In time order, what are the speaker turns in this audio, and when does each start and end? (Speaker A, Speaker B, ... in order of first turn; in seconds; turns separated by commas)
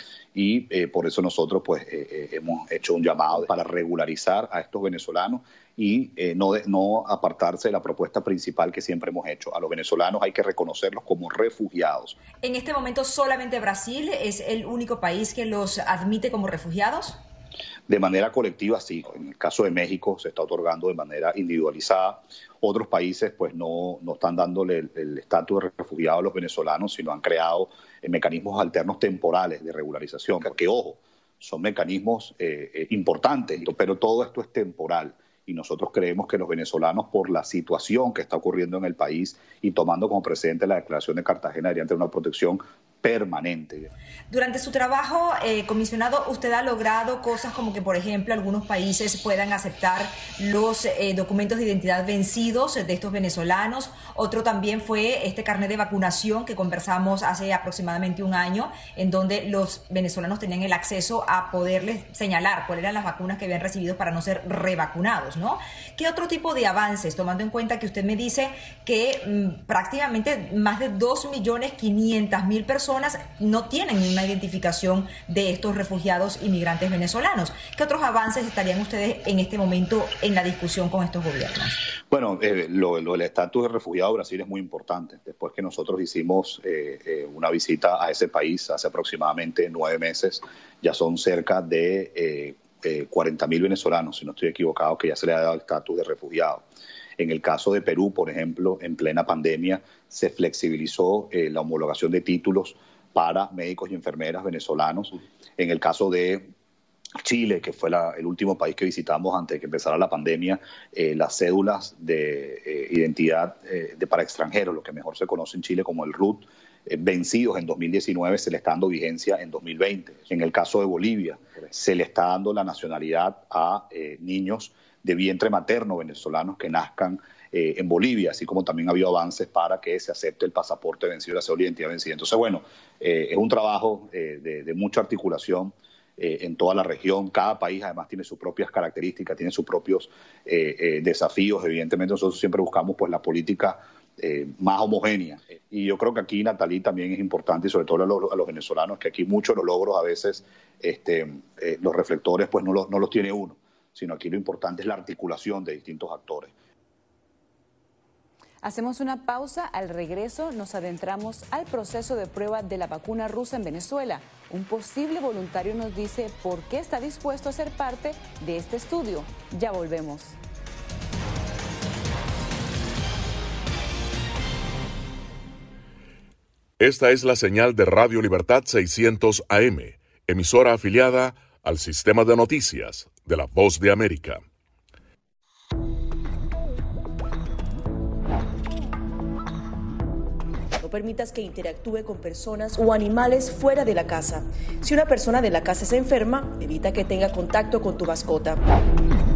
Speaker A: 0.3-12.2, Speaker B: 12.3-17.2, Speaker A: 17.9-43.9, Speaker B: 44.3-81.8, Speaker A: 82.1-96.6, Speaker A: 97.2-106.5, Speaker A: 107.2-156.5, Speaker C: 158.6-170.3, Speaker D: 176.8-184.4, Speaker E: 190.8-198.6